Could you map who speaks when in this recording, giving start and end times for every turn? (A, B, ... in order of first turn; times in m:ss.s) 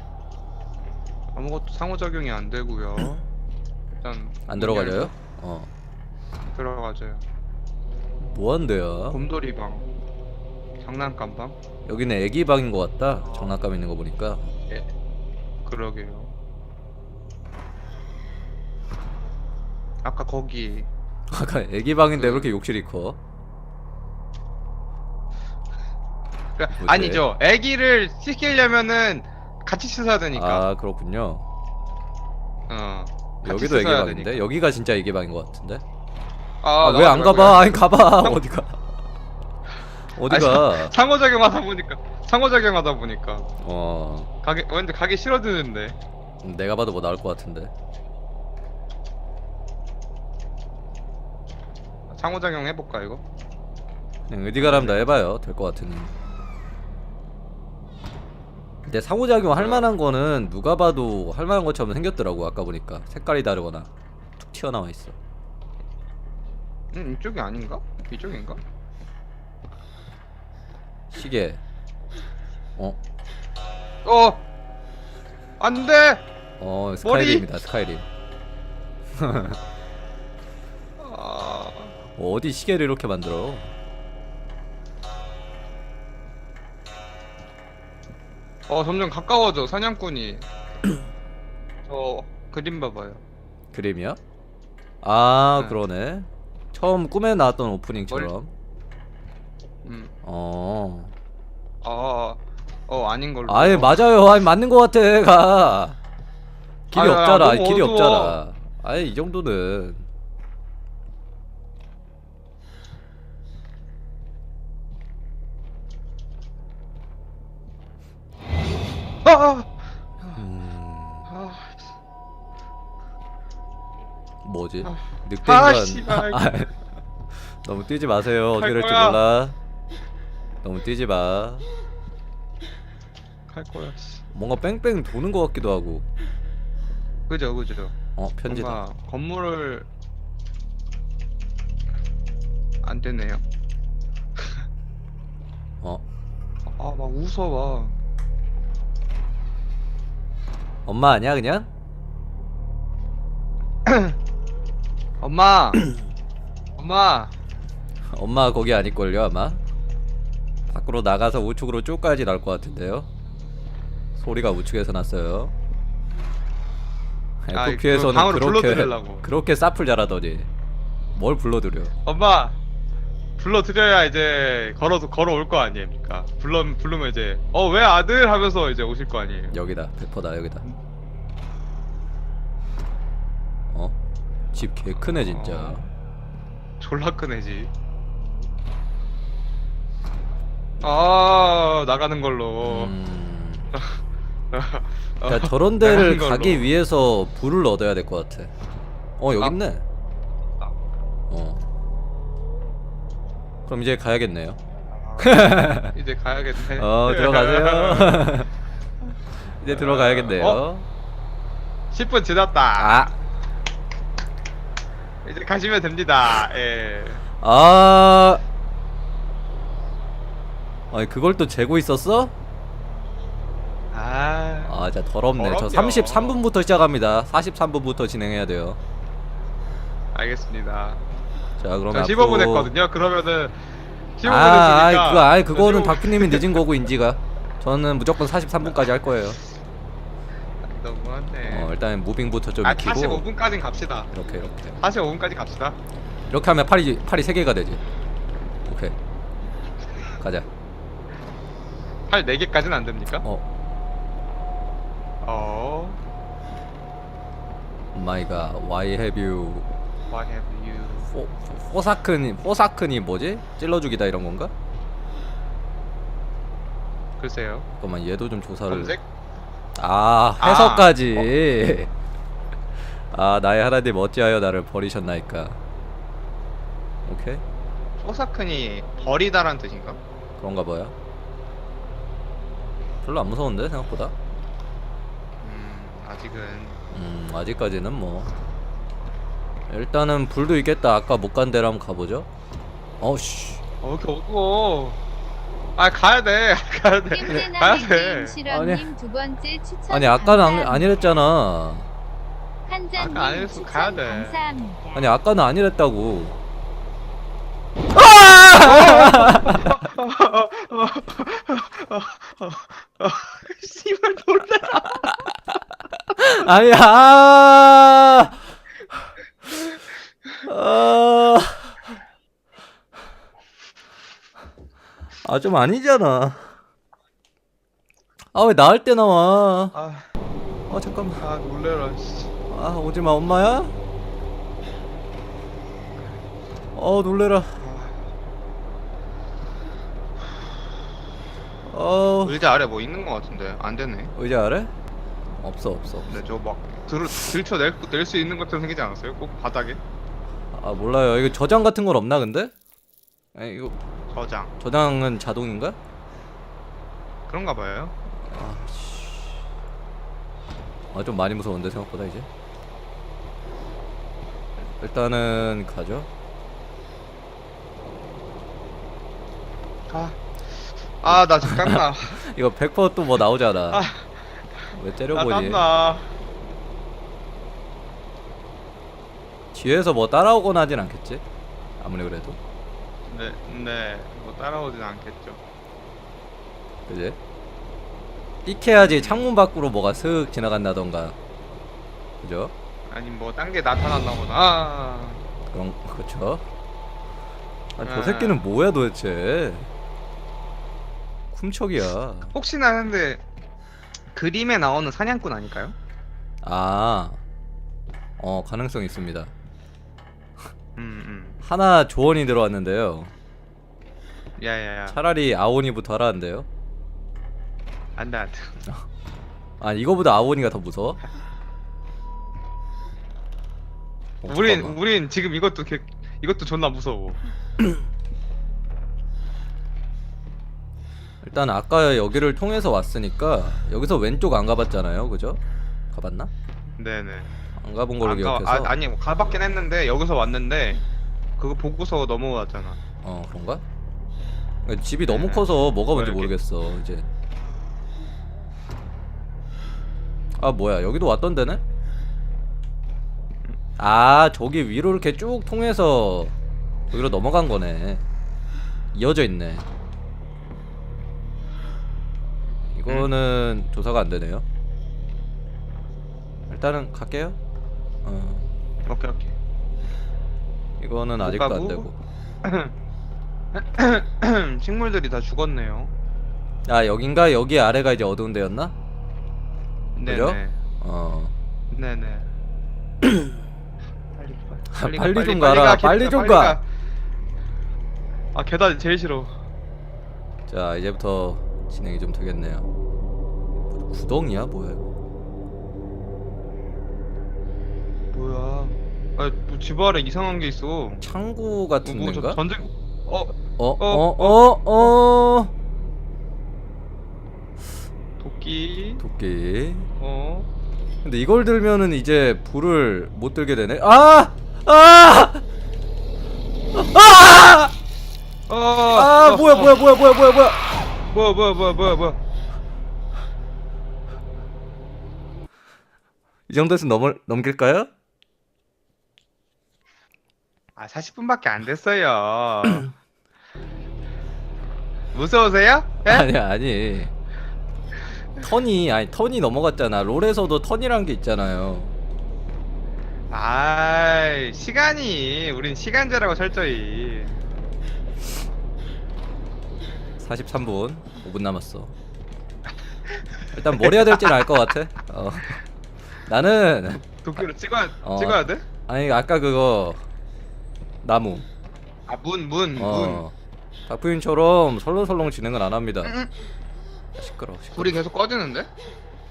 0:01.3-0:03.2 A
0:03.9-0:05.2 A
0:04.5-0:05.7 B
0:06.5-0:07.2 A
0:08.2-0:09.2 B
0:09.1-0:09.9 A
0:10.8-0:11.6 A
0:11.9-0:14.5 B
0:13.2-0:13.6 A
0:15.6-0:16.3 A
0:20.0-0:20.9 A
0:21.3-0:23.2 B
0:22.1-0:22.5 A
0:26.6-0:30.7 A
0:26.8-0:27.3 B
0:30.3-0:31.5 B
0:32.7-0:34.5 A
0:33.4-0:35.8 B
0:36.6-0:38.4 A
0:36.8-0:38.8 B
0:40.2-0:40.9 B
0:40.3-0:43.5 A
0:43.6-0:44.3 B
0:44.4-0:46.0 A
0:46.4-0:47.7 B
0:52.1-0:53.2 A
0:54.3-0:56.2 B
0:54.6-0:55.1 A
0:58.8-1:05.2 B
0:59.5-0:59.9 A
1:06.9-1:08.6 A
1:11.1-1:11.6 B
1:14.0-1:14.4 A
1:15.6-1:16.2 A
1:16.6-1:18.1 B
1:17.0-1:17.5 A
1:19.2-1:19.6 B
1:21.0-1:22.0 A
1:22.2-1:23.7 B
1:28.7-1:30.5 A
1:31.9-1:33.2 A
1:33.7-1:34.2 B
1:35.0-1:38.5 B
1:38.1-1:38.3 A
1:39.8-1:40.2 A
1:40.2-1:41.1 B
1:41.8-1:44.0 A
1:43.5-1:46.0 B
1:46.9-1:50.1 B
1:46.9-1:48.4 A
1:59.2-1:59.7 A
2:00.3-2:01.3 B
2:01.3-2:01.8 A
2:04.4-2:06.8 B
2:04.8-2:06.5 A
2:07.4-2:09.6 B
2:08.6-2:09.2 A
2:10.6-2:11.6 B
2:13.5-2:14.2 A
2:14.3-2:16.1 B
2:17.3-2:19.9 A
2:18.2-2:18.8 B
2:22.8-2:23.4 A
2:26.7-2:27.9 A
2:30.9-2:31.7 B
2:33.9-2:34.2 A
2:35.2-2:35.9 A
2:36.8-2:37.3 A
2:38.1-2:39.6 B
2:40.7-2:43.1 B
2:44.2-2:45.5 B
2:47.4-2:50.5 B
2:47.5-2:49.3 A
2:51.2-2:51.9 B
2:52.0-2:52.6 A
2:53.4-2:59.6 A
2:59.5-3:00.6 B
3:03.7-3:04.0 B
3:04.5-3:05.9 B
3:05.1-3:05.9 A
3:06.8-3:07.7 A
3:10.8-3:12.9 A
3:12.6-3:13.7 B
3:14.5-3:16.7 A
3:15.2-3:18.5 B
3:19.2-3:19.8 B
3:21.3-3:21.7 B
3:23.7-3:24.6 B
3:24.9-3:28.3 A
3:25.2-3:25.9 B
3:26.7-3:28.5 B
3:29.6-3:30.9 B
3:29.7-3:30.6 A
3:31.9-3:33.2 A
3:32.8-3:33.1 B
3:35.2-3:37.2 A
3:37.4-3:38.4 B
3:40.9-3:42.3 B
3:43.9-3:46.4 A
3:44.7-3:48.8 B
3:50.1-3:51.0 A
3:51.6-3:52.7 B
3:51.9-3:53.6 A
3:54.2-3:56.6 A
3:54.2-3:59.4 B
4:00.6-4:01.7 A
4:01.4-4:03.3 B
4:02.6-4:04.1 A
4:04.1-4:04.8 B
4:04.8-4:05.8 A
4:06.3-4:07.8 B
4:08.7-4:09.0 B
4:10.2-4:10.5 B
4:12.1-4:13.2 A
4:15.2-4:16.0 A
4:17.9-4:19.7 B
4:20.1-4:21.1 A
4:21.1-4:24.5 B
4:27.2-4:27.7 A
4:27.8-4:29.0 B
4:28.7-4:29.0 A
4:29.8-4:31.9 B
4:30.4-4:31.2 A
4:33.0-4:35.6 B
4:37.0-4:37.4 B
4:38.0-4:40.0 A
4:40.4-4:40.9 B
4:43.0-4:44.2 B
4:45.4-4:46.8 A
4:46.9-4:48.3 B
4:49.7-4:52.3 B
4:53.0-4:53.6 B
4:53.8-4:55.0 A
4:55.8-4:58.4 A
4:57.1-5:00.9 C
4:58.5-4:58.9 B
4:59.9-5:01.9 B
5:02.7-5:05.1 C
5:03.0-5:04.4 A
5:05.0-5:06.4 B
5:07.9-5:09.8 B
5:08.6-5:15.2 A
5:16.2-5:18.5 B
5:20.5-5:21.8 B
5:25.2-5:26.5 B
5:28.3-5:29.8 B
5:29.7-5:30.1 A
5:30.7-5:31.2 B
5:31.2-5:32.3 A
5:32.5-5:33.7 B
5:36.8-5:37.5 B
5:37.6-5:38.0 A
5:41.7-5:42.4 B
5:42.2-5:44.1 A
5:44.2-5:44.7 B
5:45.4-5:46.2 B
5:46.1-5:49.8 A
5:50.5-5:52.5 B
5:53.4-5:53.8 B
5:54.1-5:54.5 A
5:54.6-5:55.8 B
5:57.3-5:58.0 A
5:58.2-5:59.4 B
6:00.9-6:02.3 B
6:04.6-6:06.1 B
6:09.9-6:10.2 A
6:11.0-6:12.2 A
6:11.1-6:13.8 B
6:13.7-6:14.1 A
6:14.7-6:15.6 B
6:15.1-6:16.1 A
6:19.5-6:21.2 B
6:21.8-6:22.4 B
6:23.1-6:25.4 A
6:26.9-6:27.2 B
6:28.4-6:31.2 B
6:28.8-6:29.3 A
6:32.2-6:32.5 B
6:32.9-6:35.2 A
6:35.5-6:36.4 B
6:37.8-6:39.7 B
6:37.8-6:38.4 A
6:41.3-6:42.3 B
6:42.3-6:43.2 A
6:44.1-6:45.8 A
6:46.4-6:47.2 B
6:48.2-6:49.3 B
6:50.8-6:51.4 A
6:51.4-6:53.1 B
6:54.4-6:55.0 A
6:54.9-6:56.5 B
6:58.0-6:58.6 A
6:59.6-7:01.0 B
7:04.2-7:04.8 B
7:04.2-7:07.2 A
7:11.2-7:15.4 B
7:15.9-7:16.3 B
7:16.8-7:17.3 A
7:17.6-7:18.8 B
7:18.0-7:20.8 A
7:21.4-7:22.8 A
7:23.0-7:23.6 B
7:24.6-7:27.1 B
7:25.0-7:26.3 A
7:30.4-7:31.6 B
7:33.8-7:36.3 B
7:36.9-7:38.0 B
7:38.9-7:39.7 B
7:42.8-7:44.4 B
7:46.5-7:47.4 B
7:48.0-7:48.5 B
7:48.9-7:49.4 A
7:50.8-7:52.0 B
7:51.2-7:51.9 A
7:52.4-7:52.7 A
7:53.5-7:55.9 A
7:56.7-7:58.7 B
8:00.0-8:00.6 A
8:00.1-8:01.3 B
8:01.7-8:02.3 A
8:03.0-8:03.3 B
8:04.2-8:06.6 A
8:04.7-8:06.6 B
8:08.3-8:09.3 A
8:10.5-8:12.7 B
8:13.7-8:14.9 B
8:18.1-8:21.0 A
8:21.0-8:22.4 B
8:21.8-8:25.0 A
8:23.6-8:25.5 B
8:28.2-8:29.0 A
8:29.0-8:29.9 B
8:30.0-8:30.5 A
8:31.0-8:35.4 B
8:36.7-8:37.7 B
8:38.5-8:39.8 A
8:38.9-8:40.6 B
8:41.1-8:42.2 A
8:46.5-8:47.9 B
8:50.8-8:52.9 A
8:55.1-8:56.3 A
8:56.1-8:57.1 B
8:58.4-9:01.9 B
9:03.3-9:07.4 A
9:10.2-9:11.9 B
9:13.5-9:15.6 B
9:16.3-9:17.4 B
9:16.9-9:18.6 A
9:18.0-9:20.0 B
9:21.0-9:21.5 B
9:22.1-9:23.2 A
9:22.8-9:23.3 B
9:23.9-9:26.1 B
9:26.0-9:26.3 A
9:27.2-9:28.0 B
9:27.8-9:28.7 A